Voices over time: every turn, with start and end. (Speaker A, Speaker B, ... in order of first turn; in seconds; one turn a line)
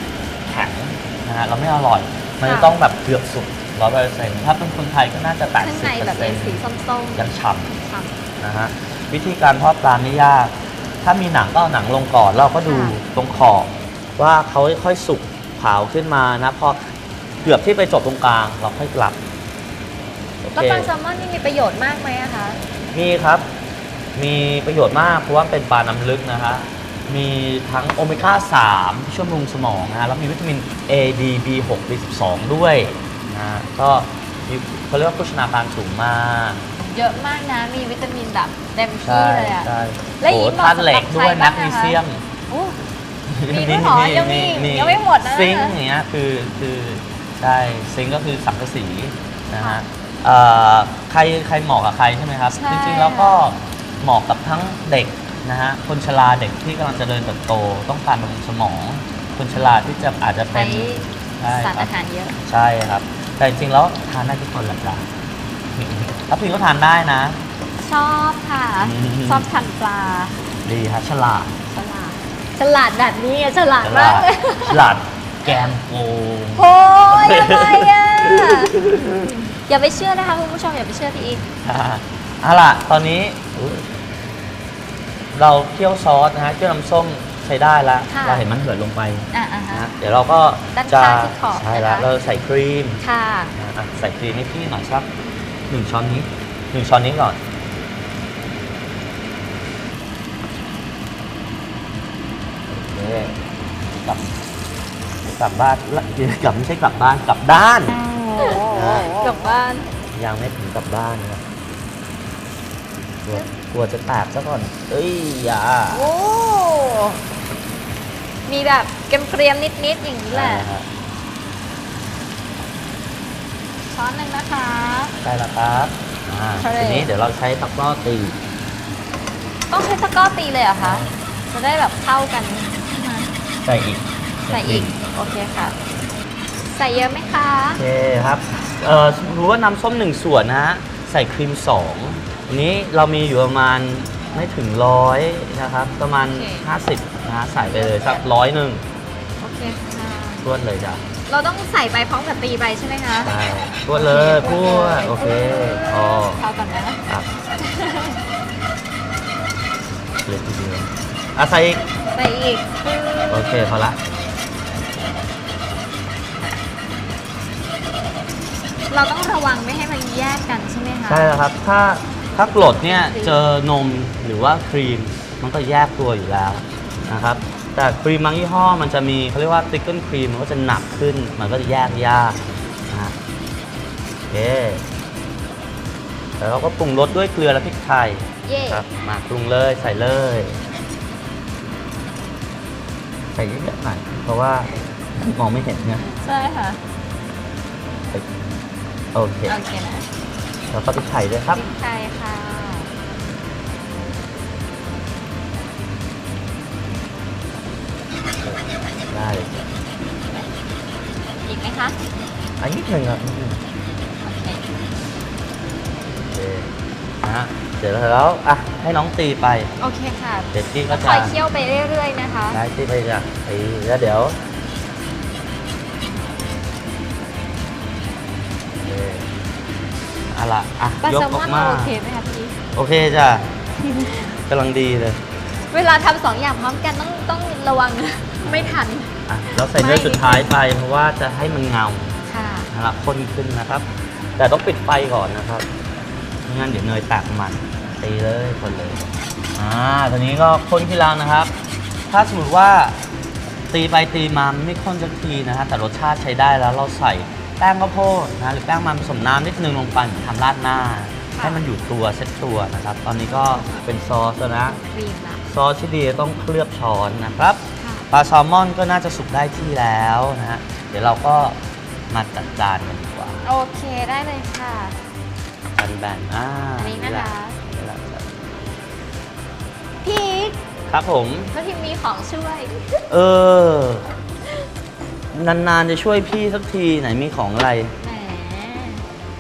Speaker A: 0.5-7.7
Speaker B: 2.4-2.8
Speaker B: 5.6-8.2
Speaker A: 8.4-16.8
Speaker B: 12.7-13.0
Speaker A: 17.4-19.2
Speaker A: 20.4-20.9
Speaker B: 20.5-22.6
Speaker A: 22.9-23.5
Speaker A: 24.2-36.6
Speaker B: 36.8-42.8
Speaker A: 39.0-42.2
Speaker A: 43.3-61.9
Speaker B: 43.5-45.8
Speaker B: 49.6-49.8
Speaker B: 52.5-53.5
Speaker B: 59.6-60.0
Speaker B: 60.5-62.4
Speaker A: 62.4-65.1
Speaker A: 65.8-67.4
Speaker B: 67.8-70.3
Speaker A: 68.8-69.5
Speaker A: 70.7-71.6
Speaker B: 71.7-74.9
Speaker A: 73.8-79.2
Speaker B: 76.5-78.8
Speaker B: 79.7-81.5
Speaker A: 81.6-83.9
Speaker A: 85.3-93.0
Speaker B: 88.1-88.5
Speaker B: 89.3-89.9
Speaker B: 90.7-92.1
Speaker B: 93.0-93.5
Speaker A: 93.5-95.1
Speaker A: 95.7-97.4
Speaker A: 102.7-103.4
Speaker A: 104.0-104.4
Speaker A: 105.2-108.1
Speaker B: 108.4-109.9
Speaker A: 108.6-109.2
Speaker A: 110.1-111.4
Speaker A: 113.2-116.1
Speaker B: 115.9-117.2
Speaker B: 118.5-120.7
Speaker A: 120.3-120.9
Speaker B: 123.9-125.2
Speaker A: 125.2-128.4
Speaker B: 126.6-127.1
Speaker B: 129.7-133.3
Speaker A: 130.8-131.2
Speaker A: 133.6-134.9
Speaker B: 134.5-135.8
Speaker B: 136.7-137.8
Speaker A: 137.8-148.8
Speaker B: 146.2-146.7
Speaker B: 147.6-148.2
Speaker B: 149.4-150.5
Speaker A: 150.4-151.0
Speaker B: 151.3-153.3
Speaker A: 153.2-156.4
Speaker B: 153.9-157.0
Speaker B: 157.6-158.2
Speaker A: 160.2-161.8
Speaker B: 162.1-163.7
Speaker A: 163.3-164.0
Speaker B: 168.9-171.4
Speaker A: 171.1-183.2
Speaker B: 172.4-173.4
Speaker A: 184.3-184.8
Speaker A: 186.4-190.6
Speaker B: 188.4-188.9
Speaker A: 193.3-196.1
Speaker B: 196.0-196.8
Speaker A: 199.1-199.6
Speaker B: 199.5-200.1
Speaker A: 200.7-201.6
Speaker B: 201.5-202.9
Speaker A: 208.4-209.7
Speaker B: 211.4-212.0
Speaker A: 212.6-213.6
Speaker B: 214.2-214.6
Speaker A: 216.3-219.8
Speaker B: 219.8-222.6
Speaker A: 220.5-221.4
Speaker A: 222.5-224.4
Speaker A: 228.8-229.3
Speaker A: 230.3-231.9
Speaker B: 231.0-232.6
Speaker A: 232.7-233.6
Speaker B: 233.9-234.3
Speaker A: 234.4-235.2
Speaker B: 235.7-240.5
Speaker A: 238.4-245.7
Speaker B: 242.3-242.7
Speaker A: 246.4-251.5
Speaker A: 252.1-253.0
Speaker A: 253.7-264.8
Speaker B: 261.4-261.6
Speaker B: 263.3-263.9
Speaker B: 264.5-265.4
Speaker A: 265.4-271.6
Speaker B: 267.8-268.1
Speaker A: 272.1-273.4
Speaker B: 273.4-275.0
Speaker A: 275.8-278.4
Speaker B: 276.7-277.6
Speaker B: 280.0-280.6
Speaker A: 280.9-281.5
Speaker B: 281.5-283.0
Speaker A: 283.1-284.1
Speaker A: 285.3-287.9
Speaker B: 288.0-289.1